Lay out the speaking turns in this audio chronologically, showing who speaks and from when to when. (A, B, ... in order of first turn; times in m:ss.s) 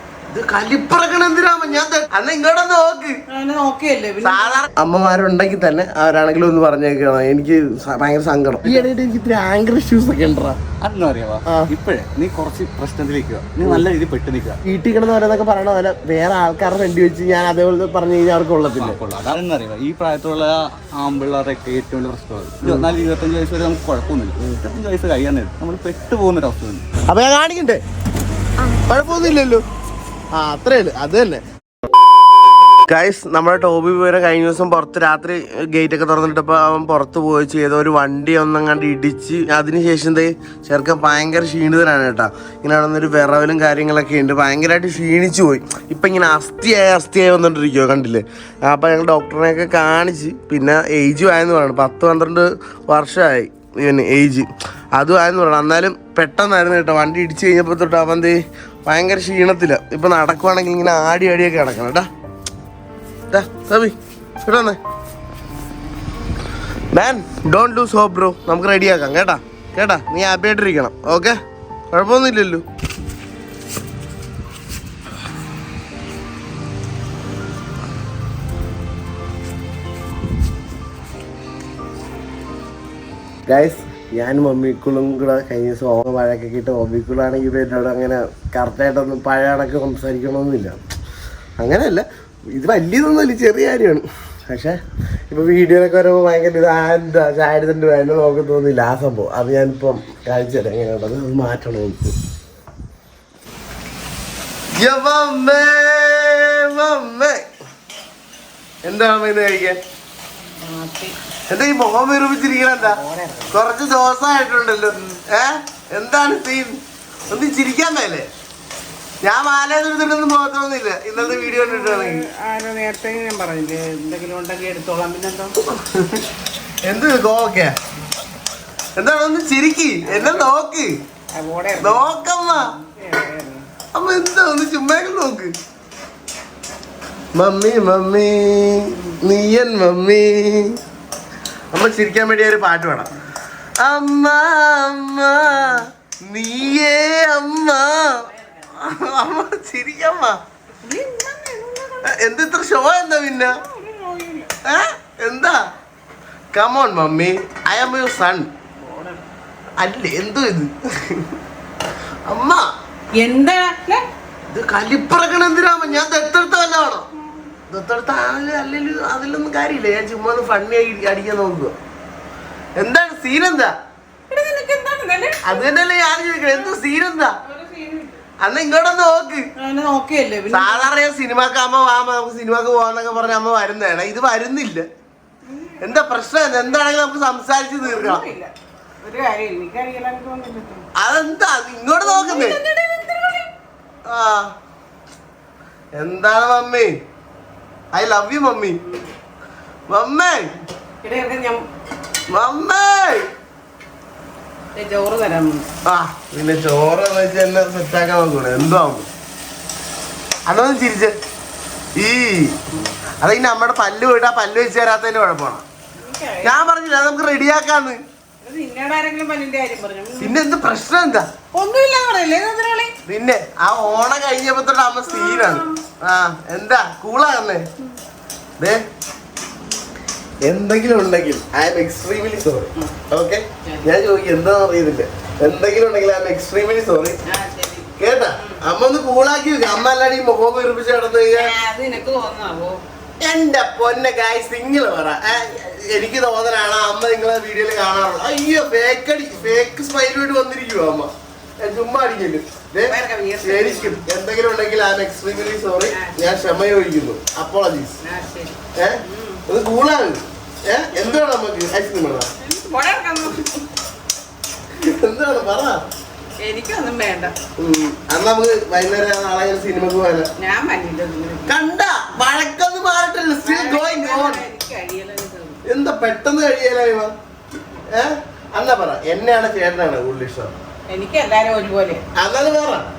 0:00.3-0:03.2 A
0:03.3-0:04.6 B
0:04.2-0:10.6 A
0:10.8-0:14.6 C
0:14.6-0:19.0 A
0:18.7-0:26.9 C
0:22.6-0:22.9 A
0:27.1-0:27.8 A
0:28.9-0:29.6 A
0:30.4-0:31.4 A
0:32.9-1:02.1 A
1:03.3-1:04.8 A
1:06.9-1:11.4 A
1:11.9-1:12.6 A
1:23.5-1:30.8 A
1:31.6-1:34.8 A
1:35.3-1:42.2 A
1:44.8-1:47.4 A
1:48.8-1:49.8 A
1:50.6-1:51.2 B
1:51.5-1:58.3 A
1:53.0-1:53.5 B
1:59.2-2:02.2 A
2:01.4-2:05.6 B
2:05.6-2:06.2 A
2:06.8-2:07.7 A
2:09.0-2:10.9 A
2:11.3-2:12.1 B
2:11.8-2:12.7 A
2:12.8-2:13.7 B
2:13.9-2:15.5 A
2:17.3-2:20.8 A
2:21.7-2:23.2 A
2:23.8-2:30.4 A
2:30.8-2:32.0 B
2:32.0-2:33.6 A
2:33.6-2:34.5 B
2:34.6-2:35.6 A
2:36.5-2:38.5 A
2:38.8-2:39.2 B
2:39.8-2:41.3 A
2:42.2-2:42.6 A
2:43.2-2:44.1 B
2:44.5-2:47.1 A
2:47.7-2:51.8 A
2:52.8-2:53.7 A
2:54.3-2:55.5 B
2:55.4-2:57.4 A
2:57.4-2:58.2 B
2:58.4-2:59.5 A
2:59.6-3:00.9 B
3:00.5-3:04.8 A
3:05.4-3:05.8 B
3:05.8-3:08.3 A
3:07.8-3:10.8 B
3:11.0-3:12.6 A
3:12.1-3:13.5 B
3:14.1-3:14.5 A
3:15.9-3:16.9 A
3:17.9-3:18.8 A
3:19.9-3:20.5 A
3:21.0-3:21.7 B
3:22.3-3:23.3 A
3:24.8-3:25.7 B
3:25.8-3:29.1 A
3:30.5-3:31.1 A
3:32.0-3:32.6 A
3:33.2-3:35.6 A
3:36.0-3:36.6 B
3:36.4-3:38.0 A
3:38.4-3:40.3 B
3:40.2-3:41.3 A
3:41.5-3:43.0 B
3:43.0-3:47.6 A
3:45.2-3:45.7 B
3:50.4-3:57.2 A
3:57.2-3:58.6 B
3:58.0-4:01.6 A
4:01.4-4:02.8 B
4:03.2-4:18.0 A
4:12.9-4:14.0 B
4:18.0-4:19.4 B
4:18.7-4:22.3 A
4:22.4-4:23.7 B
4:24.8-4:25.8 A
4:26.4-4:27.4 B
4:27.6-4:30.3 A
4:30.4-4:31.5 B
4:31.4-4:34.4 A
4:33.4-4:35.6 B
4:35.6-4:37.1 A
4:37.9-4:40.5 A
4:40.9-4:42.0 B
4:42.2-4:42.9 A